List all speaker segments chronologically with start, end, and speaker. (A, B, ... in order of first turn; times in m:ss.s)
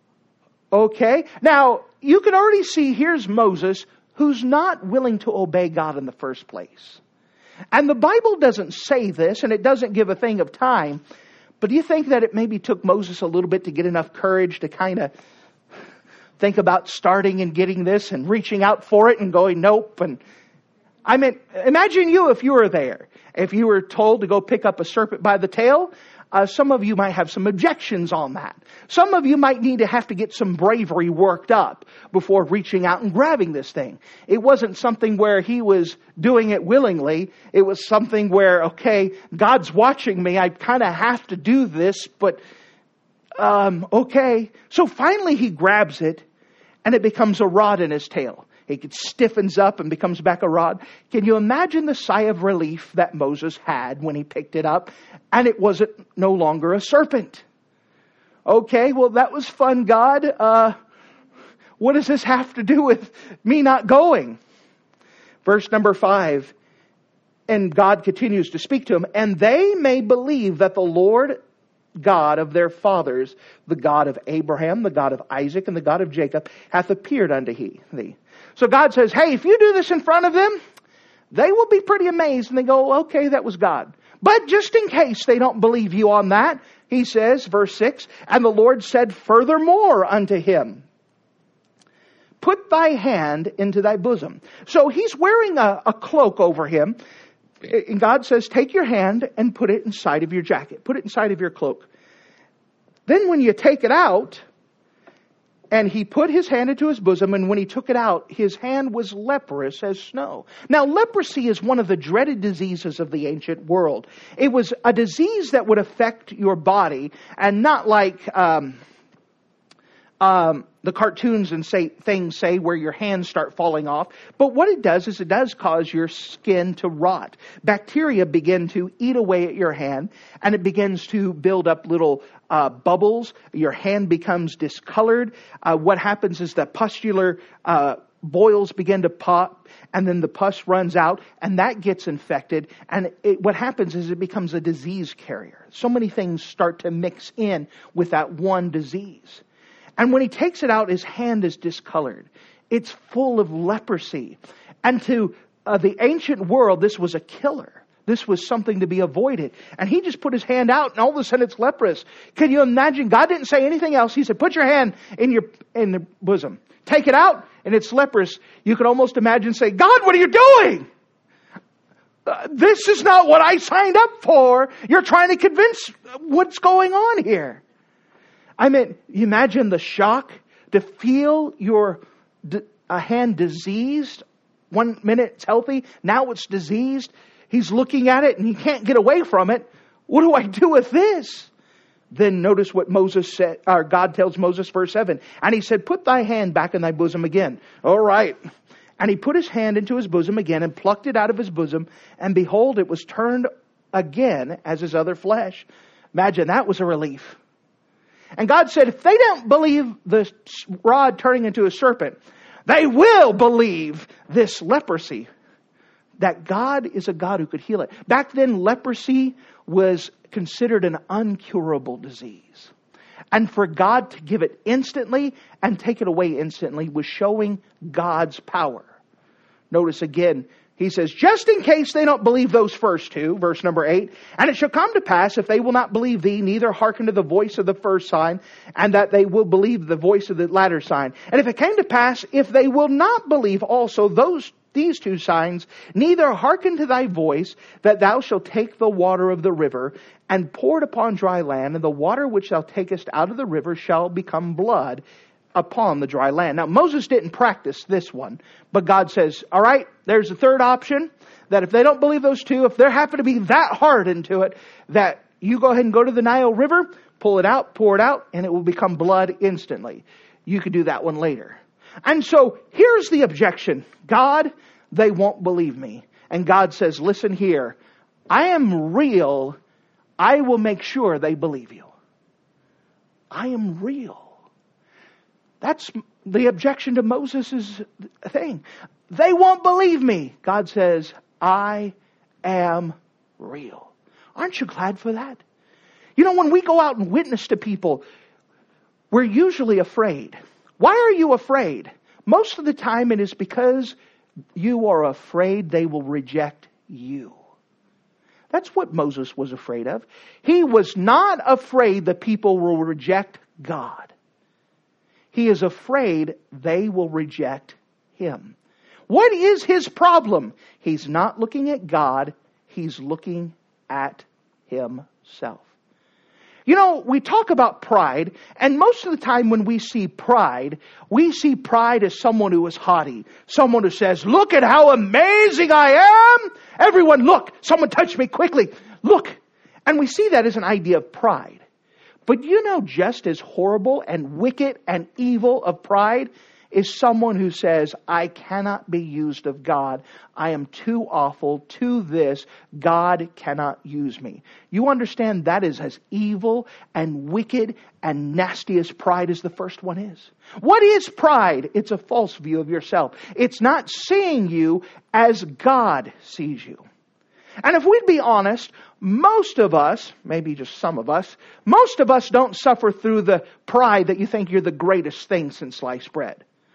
0:00.7-0:07.0 A
0:07.7-0:11.0 A
0:11.6-0:15.1 A
0:16.4-0:20.2 A
0:21.0-0:42.4 A
0:43.4-0:46.2 A
0:46.8-0:57.4 A
0:58.4-1:00.7 A
1:01.8-1:04.4 A
1:05.4-1:06.5 A
1:07.5-1:11.4 A
1:12.0-1:20.6 A
1:21.3-1:30.8 A
1:32.4-1:37.0 A
1:37.6-1:41.9 A
1:43.1-1:44.4 A
1:45.7-1:58.8 A
2:00.2-2:29.4 A
2:30.0-2:50.8 A
2:52.2-2:57.6 A
2:58.6-3:11.5 A
3:12.1-3:18.4 A
3:19.0-3:27.4 A
3:28.4-3:35.3 A
3:36.2-3:42.7 A
3:43.3-3:48.9 A
3:49.7-4:15.0 A
4:15.5-4:37.8 A
4:38.3-4:39.6 A
4:40.2-4:41.9 A
4:43.3-4:44.3 A
4:45.6-4:55.4 A
4:56.2-4:58.0 A
4:59.1-5:04.0 A
5:04.6-5:07.4 A
5:08.5-5:14.1 A
5:15.3-5:18.6 A
5:19.1-5:25.7 A
5:26.7-5:41.6 A
5:42.2-6:06.8 A
6:07.6-6:16.4 A